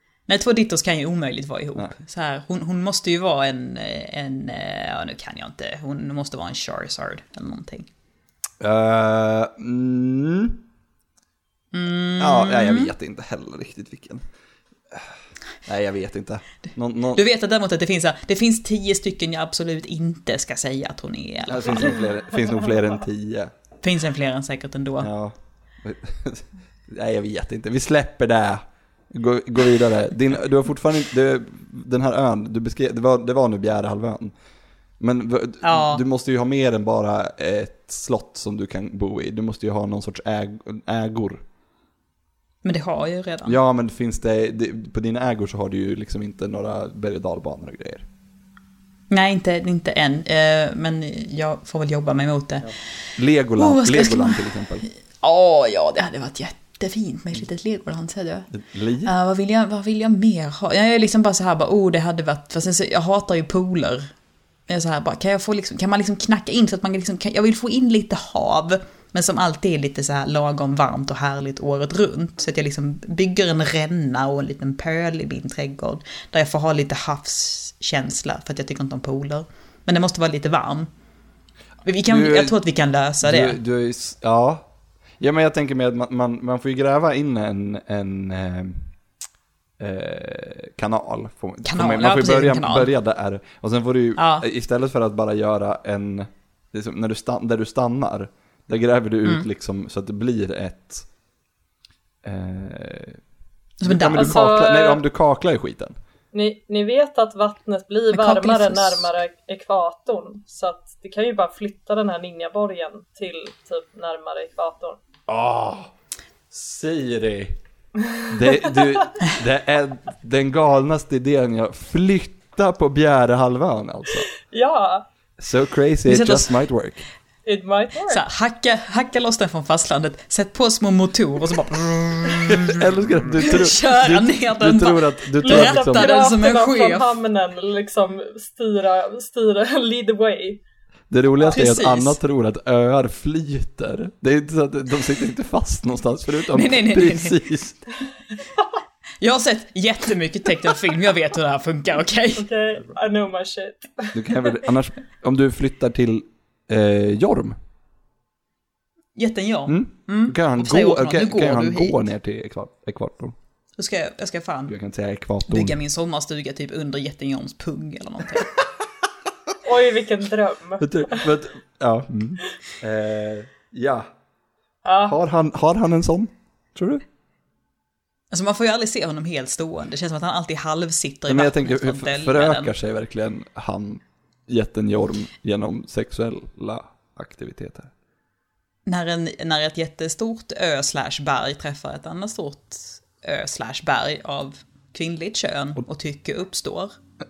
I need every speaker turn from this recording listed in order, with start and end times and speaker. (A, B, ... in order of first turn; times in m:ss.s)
0:00.3-0:07.9 A
0:08.6-0:10.6 B
0:11.7-0:12.9 A
0:12.2-0:14.2 B
0:15.6-0:17.2 B
0:17.1-0:21.9 A
0:21.5-0:23.5 B
0:23.8-0:25.1 A
0:25.0-0:34.3 B
0:35.0-0:41.4 B
0:35.6-0:36.0 A
0:42.6-0:43.6 A
0:43.4-0:48.0 B
0:49.1-0:52.7 A
0:53.2-0:54.8 B
0:53.6-0:54.4 A
0:55.2-0:58.5 A
0:58.5-0:59.1 B
0:59.0-1:04.1 A
1:04.7-1:20.9 A
1:21.8-1:23.6 A
1:22.0-1:22.6 B
1:23.2-1:24.6 B
1:25.2-1:28.9 B
1:29.8-1:41.1 B
1:31.6-1:32.9 A
1:34.2-1:34.4 A
1:42.2-1:43.2 B
1:43.8-1:44.4 A
1:43.8-1:46.0 B
1:44.1-1:45.0 C
1:46.3-1:55.0 C
1:48.1-1:49.1 A
1:55.3-1:55.9 B
1:56.5-1:57.6 B
1:58.0-1:59.0 C
1:58.3-2:04.3 B
2:04.5-2:05.0 C
2:05.4-2:07.0 B
2:06.1-2:06.5 A
2:07.4-2:08.2 C
2:08.1-2:17.1 A
2:12.5-2:16.1 B
2:15.4-2:20.6 C
2:21.1-2:27.8 B
2:21.4-2:22.2 A
2:26.5-2:27.4 A
2:29.2-2:32.5 A
2:32.4-2:34.4 C
2:34.1-2:37.6 B
2:39.2-2:42.0 A
2:39.7-2:43.3 B
2:43.8-2:44.7 A
2:44.7-2:45.8 B
2:45.4-2:48.5 A
2:49.6-2:51.2 C
2:50.8-2:54.1 B
2:54.8-2:55.2 C
2:55.0-2:57.0 B
2:58.3-3:02.7 A
3:01.3-3:07.9 B
3:08.8-3:16.9 A